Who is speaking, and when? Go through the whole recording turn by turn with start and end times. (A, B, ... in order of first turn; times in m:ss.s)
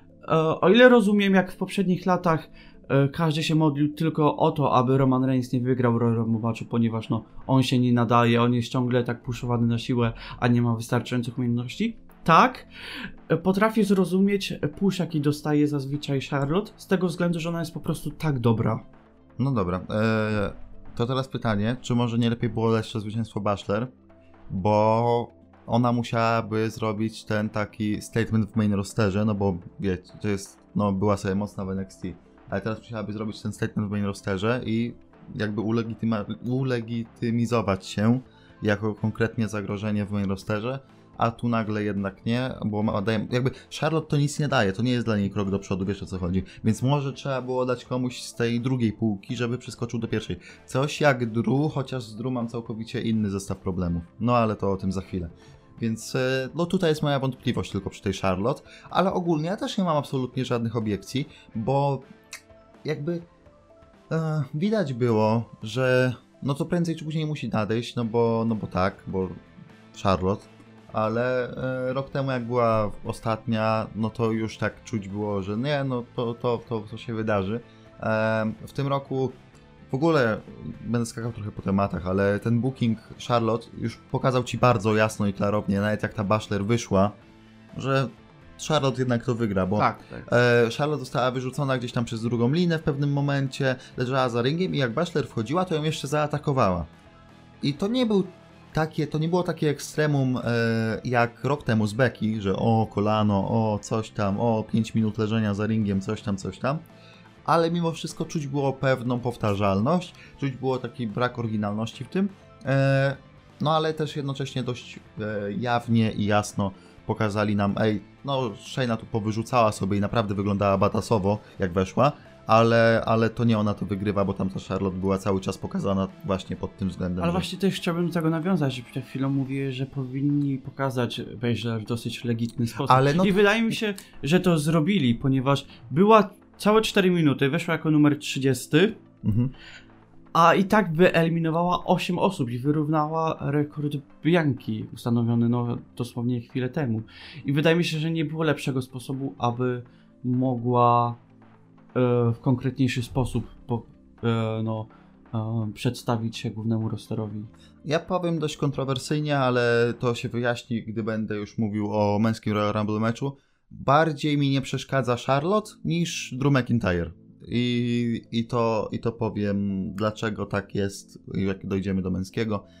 0:00.2-0:18.8 A
0:19.4-0:23.9 B
0:24.5-1:02.1 B
1:02.8-1:03.2 B
1:04.1-1:09.4 B
1:09.9-1:19.4 B
1:19.9-1:27.2 B
1:27.7-1:36.9 B
1:29.8-1:30.3 A
1:37.6-1:46.8 B
1:47.4-2:07.4 B
2:07.2-2:19.0 A
2:12.8-2:13.4 B
2:19.2-2:19.5 B
2:20.3-2:31.2 A
2:31.9-2:37.5 A
2:37.8-2:52.6 B